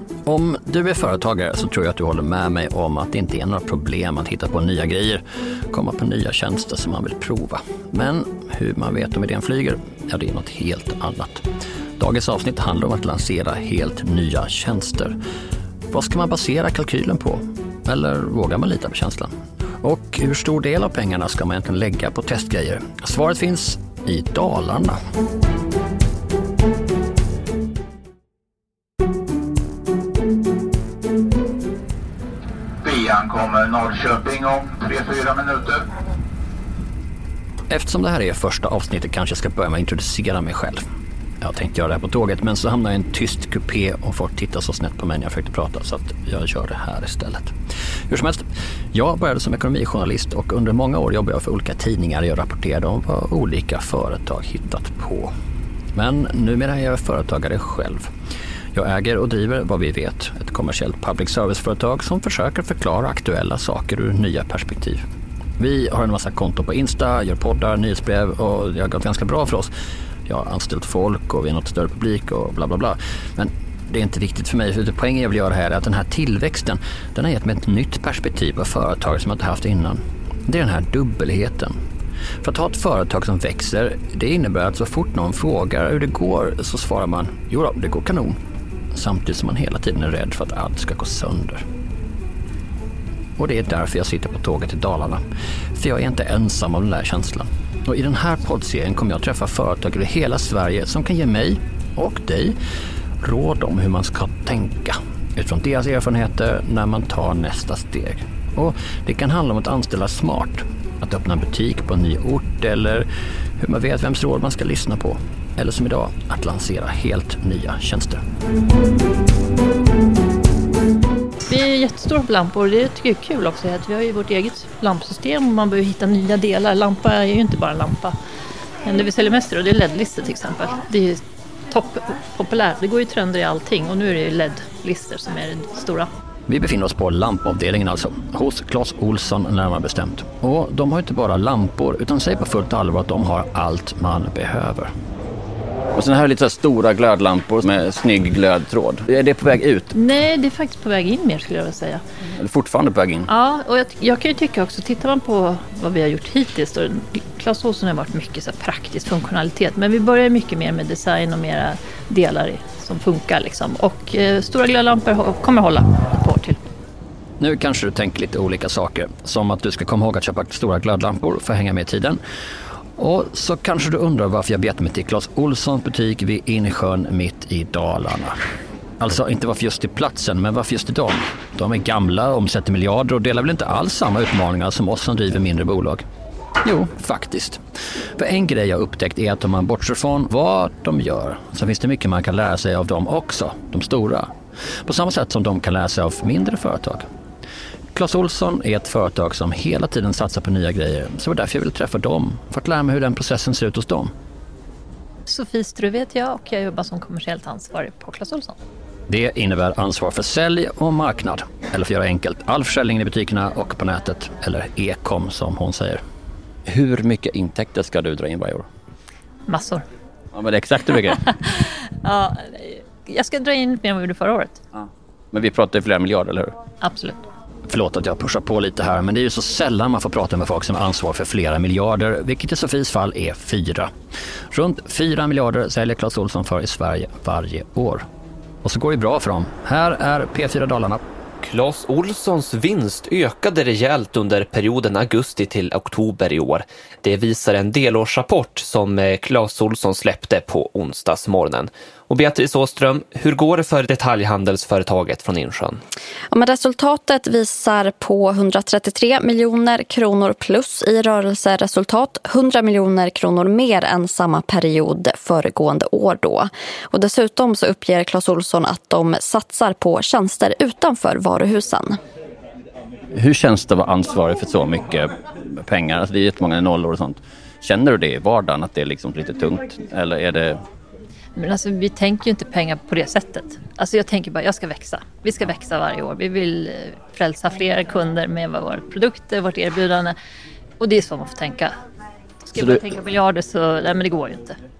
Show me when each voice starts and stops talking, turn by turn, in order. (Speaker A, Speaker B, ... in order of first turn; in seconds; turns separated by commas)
Speaker A: 0.3-11.5, Speaker A: 12.0-15.2, Speaker A: 15.9-25.0, Speaker B: 32.8-35.8, Speaker A: 37.7-40.8, Speaker A: 41.4-47.5, Speaker A: 48.1-55.3, Speaker A: 55.9-58.1, Speaker A: 58.7-65.0, Speaker A: 65.6-69.7, Speaker A: 70.3-81.8, Speaker A: 82.4-88.4, Speaker A: 88.9-91.7, Speaker A: 93.4-102.6, Speaker A: 103.2-113.1, Speaker A: 113.6-118.2, Speaker C: 121.4-128.2, Speaker C: 128.8-136.1, Speaker A: 136.5-144.9, Speaker A: 145.9-149.9, Speaker C: 149.9-152.0, Speaker A: 152.3-153.3, Speaker C: 153.3-166.6, Speaker A: 167.4-172.2, Speaker A: 173.0-178.4, Speaker A: 179.0-186.0, Speaker A: 186.6-187.6, Speaker A: 188.2-194.3, Speaker A: 194.8-197.1, Speaker A: 197.9-204.1, Speaker C: 205.3-208.6, Speaker A: 209.1-216.0, Speaker A: 216.7-218.7, Speaker C: 219.5-219.8, Speaker A: 220.3-221.2, Speaker C: 221.2-224.6, Speaker A: 224.7-226.6, Speaker C: 226.8-227.2, Speaker A: 227.7-233.9, Speaker A: 234.5-238.1, Speaker A: 238.6-241.0, Speaker D: 241.4-255.8, Speaker E: 256.3-272.0, Speaker A: 273.1-280.6, Speaker C: 281.4-290.1, Speaker C: 290.8-291.8, Speaker C: 292.4-294.6, Speaker A: 292.6-292.9